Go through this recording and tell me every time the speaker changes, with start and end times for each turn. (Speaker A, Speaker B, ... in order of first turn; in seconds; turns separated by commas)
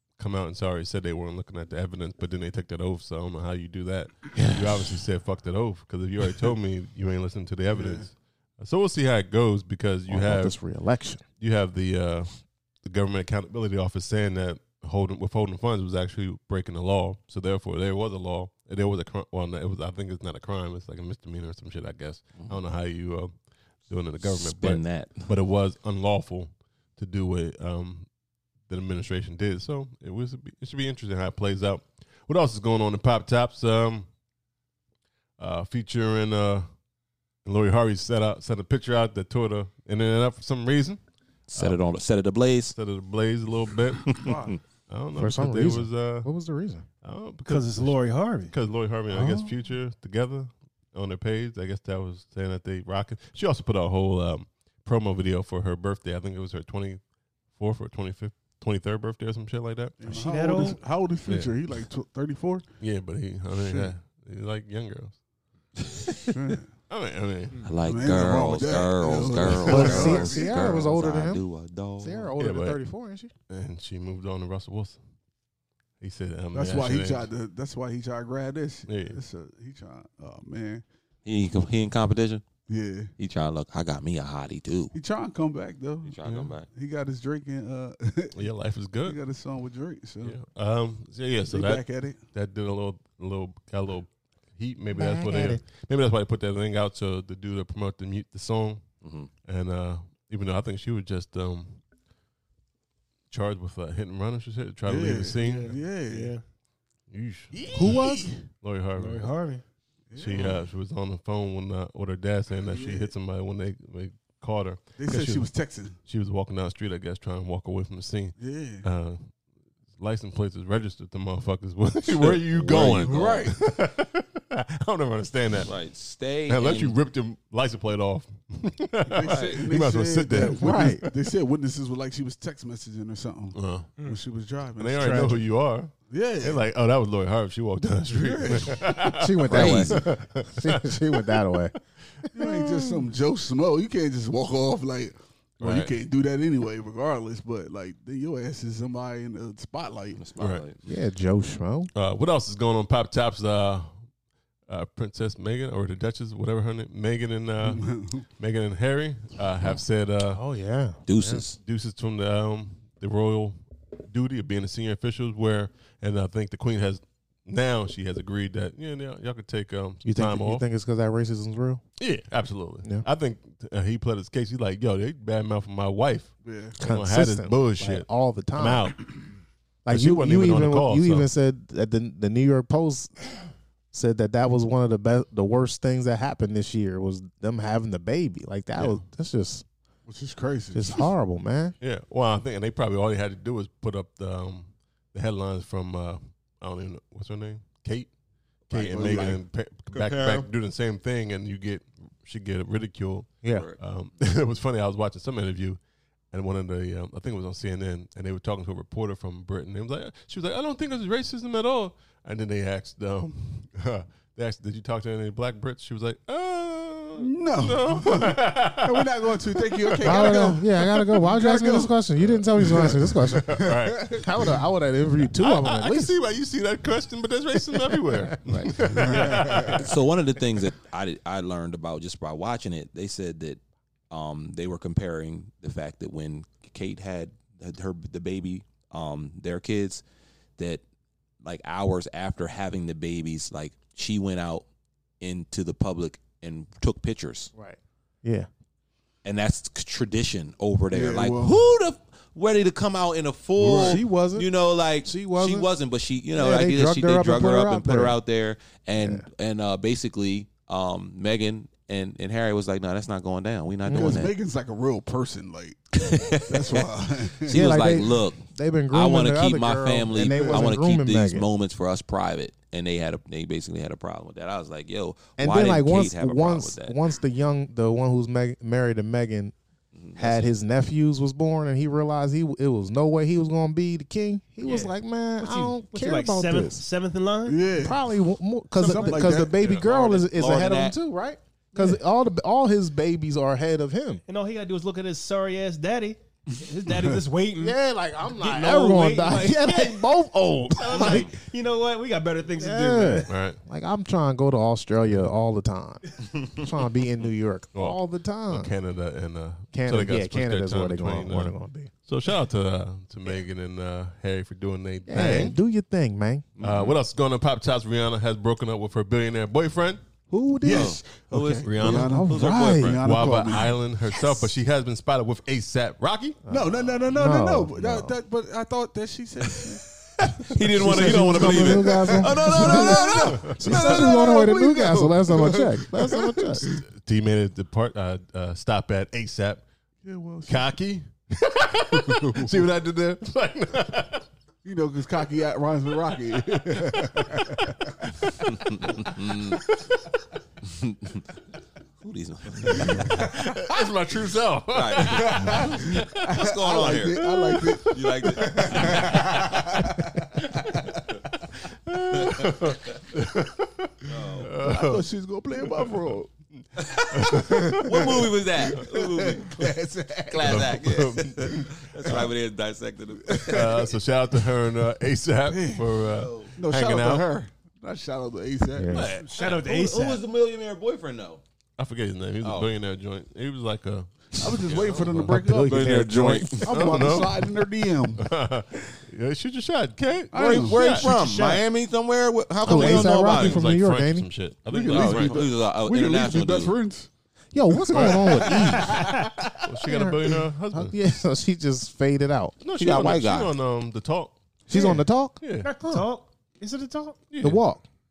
Speaker A: 0.2-10.6, Speaker B: 4.3-5.0, Speaker C: 7.7-8.1, Speaker B: 10.1-11.2, Speaker A: 11.4-23.3, Speaker A: 23.9-28.1, Speaker D: 24.2-25.3, Speaker A: 28.7-34.1, Speaker A: 35.4-36.7, Speaker A: 37.4-41.0, Speaker D: 41.5-42.8, Speaker A: 42.7-44.3, Speaker C: 44.1-44.6, Speaker A: 44.9-46.3, Speaker B: 45.1-46.9, Speaker A: 47.0-57.0, Speaker E: 47.5-48.5, Speaker C: 49.1-49.6, Speaker A: 57.5-60.2, Speaker C: 60.0-62.6, Speaker E: 60.1-60.8, Speaker A: 61.2-61.6, Speaker A: 62.8-65.2, Speaker C: 63.5-63.9, Speaker C: 66.3-66.7, Speaker A: 66.9-67.6, Speaker D: 67.6-72.3, Speaker C: 67.8-70.5, Speaker A: 69.4-70.2, Speaker B: 69.6-71.4, Speaker B: 72.0-73.3, Speaker A: 72.4-72.8, Speaker A: 73.5-75.0, Speaker A: 76.0-77.3, Speaker C: 76.5-80.8, Speaker A: 78.9-79.2, Speaker D: 81.2-82.4, Speaker C: 82.7-83.1, Speaker D: 83.2-84.9, Speaker C: 84.9-88.4, Speaker D: 86.0-86.7, Speaker A: 86.2-86.5, Speaker A: 88.3-89.2, Speaker C: 89.0-90.4, Speaker A: 90.2-98.9, Speaker C: 91.5-92.2, Speaker B: 94.9-95.6, Speaker D: 99.0-99.3, Speaker A: 99.4-101.8, Speaker A: 103.3-105.8, Speaker C: 104.8-106.3, Speaker E: 106.0-106.4, Speaker A: 107.1-108.0, Speaker C: 107.5-108.4, Speaker B: 107.7-108.3, Speaker A: 108.6-109.4, Speaker E: 108.9-109.6, Speaker C: 110.1-110.7, Speaker A: 110.2-119.3, Speaker C: 112.6-113.1, Speaker C: 115.0-116.0, Speaker C: 118.4-118.9, Speaker A: 119.9-125.7, Speaker D: 122.2-123.5, Speaker C: 122.7-123.6, Speaker D: 125.6-127.0, Speaker A: 126.5-131.1, Speaker C: 129.1-135.4, Speaker D: 129.2-129.6, Speaker B: 130.4-131.0, Speaker A: 133.5-133.9, Speaker A: 134.8-141.4, Speaker E: 135.0-135.3, Speaker C: 136.1-136.6, Speaker C: 138.1-139.0, Speaker B: 139.0-143.1, Speaker D: 139.5-140.0, Speaker C: 142.3-150.2, Speaker A: 145.6-145.9, Speaker D: 150.1-150.8, Speaker A: 150.4-150.6, Speaker B: 150.8-151.9, Speaker A: 151.9-154.0, Speaker A: 154.7-160.4, Speaker C: 157.6-158.3, Speaker B: 160.3-161.4, Speaker D: 161.1-161.6, Speaker A: 161.3-170.6, Speaker B: 170.0-171.8, Speaker A: 172.0-179.3, Speaker C: 176.4-176.8, Speaker B: 176.8-178.9, Speaker B: 179.8-183.3, Speaker A: 179.9-181.3, Speaker B: 183.9-189.6, Speaker C: 190.1-191.1, Speaker B: 190.7-191.8, Speaker A: 191.8-198.1, Speaker A: 198.7-205.8, Speaker C: 198.7-199.4, Speaker B: 203.4-203.7, Speaker D: 203.5-203.8, Speaker A: 206.3-221.2, Speaker C: 217.2-222.0, Speaker B: 220.0-226.2, Speaker A: 222.2-224.2, Speaker C: 222.6-224.3, Speaker A: 225.3-229.9, Speaker B: 228.1-228.7, Speaker C: 228.9-229.8, Speaker D: 229.7-240.0, Speaker D: 241.4-244.6, Speaker D: 245.2-247.5, Speaker B: 247.5-248.5, Speaker D: 249.2-264.3, Speaker C: 250.9-251.6, Speaker C: 253.6-254.0, Speaker B: 253.6-254.5, Speaker B: 255.0-255.7, Speaker B: 256.3-258.2, Speaker B: 259.0-259.2, Speaker B: 263.9-264.3, Speaker C: 263.9-267.7, Speaker D: 266.0-266.8, Speaker D: 267.4-276.9, Speaker B: 267.5-271.5, Speaker C: 270.3-270.7, Speaker B: 275.4-279.5, Speaker D: 279.9-280.5, Speaker B: 280.1-286.8, Speaker E: 284.6-287.8, Speaker C: 287.4-288.0, Speaker B: 287.8-294.2, Speaker C: 288.8-289.6, Speaker D: 289.7-291.0, Speaker E: 294.3-297.8, Speaker C: 296.9-297.1, Speaker B: 297.6-301.3, Speaker E: 298.4-303.3, Speaker B: 302.6-308.7, Speaker A: 303.3-303.6, Speaker A: 307.7-311.5, Speaker B: 309.7-311.9, Speaker A: 312.0-315.6, Speaker B: 315.1-316.5, Speaker D: 316.6-317.0, Speaker A: 316.6-320.0, Speaker B: 320.3-321.0, Speaker C: 320.6-323.8, Speaker D: 320.7-322.8, Speaker A: 321.6-326.4, Speaker B: 321.8-323.0, Speaker B: 326.4-328.2, Speaker C: 326.5-329.9, Speaker D: 330.4-334.3, Speaker B: 330.6-336.6, Speaker C: 330.8-336.8, Speaker A: 336.8-339.6, Speaker C: 340.0-340.7, Speaker A: 340.5-344.2, Speaker C: 342.0-342.6, Speaker C: 344.6-347.7, Speaker A: 346.7-347.4, Speaker D: 348.5-349.6, Speaker A: 348.8-349.1, Speaker D: 350.6-351.2, Speaker D: 352.0-353.4, Speaker A: 352.6-356.3, Speaker D: 354.7-357.2, Speaker C: 355.0-360.1, Speaker A: 357.2-360.8, Speaker D: 357.9-359.6, Speaker A: 361.8-366.1, Speaker D: 364.0-364.5, Speaker C: 364.6-366.3, Speaker D: 366.8-369.6, Speaker A: 367.1-368.2, Speaker C: 367.3-370.8, Speaker D: 370.3-373.9, Speaker A: 370.4-372.3, Speaker C: 373.3-373.6, Speaker A: 373.4-377.3, Speaker C: 375.4-376.0, Speaker D: 376.1-376.5, Speaker C: 376.5-378.9, Speaker B: 378.7-379.1, Speaker A: 378.9-379.2, Speaker D: 378.9-381.4, Speaker E: 379.1-380.2, Speaker A: 381.8-387.5, Speaker D: 382.4-382.7, Speaker C: 384.4-385.7, Speaker B: 385.2-386.7, Speaker D: 385.6-386.7, Speaker C: 386.6-388.3, Speaker A: 388.2-391.1, Speaker C: 390.3-390.8, Speaker D: 390.3-393.6, Speaker E: 391.0-391.6, Speaker B: 392.6-394.3, Speaker A: 392.6-395.4, Speaker C: 394.7-397.1, Speaker D: 394.9-396.8, Speaker B: 397.5-402.6, Speaker C: 397.8-399.1, Speaker A: 397.9-398.4, Speaker A: 399.6-400.9, Speaker A: 402.6-404.4, Speaker D: 402.7-403.5, Speaker B: 404.7-406.1, Speaker A: 405.4-405.7, Speaker E: 405.6-407.2, Speaker A: 407.3-407.6, Speaker B: 407.4-407.8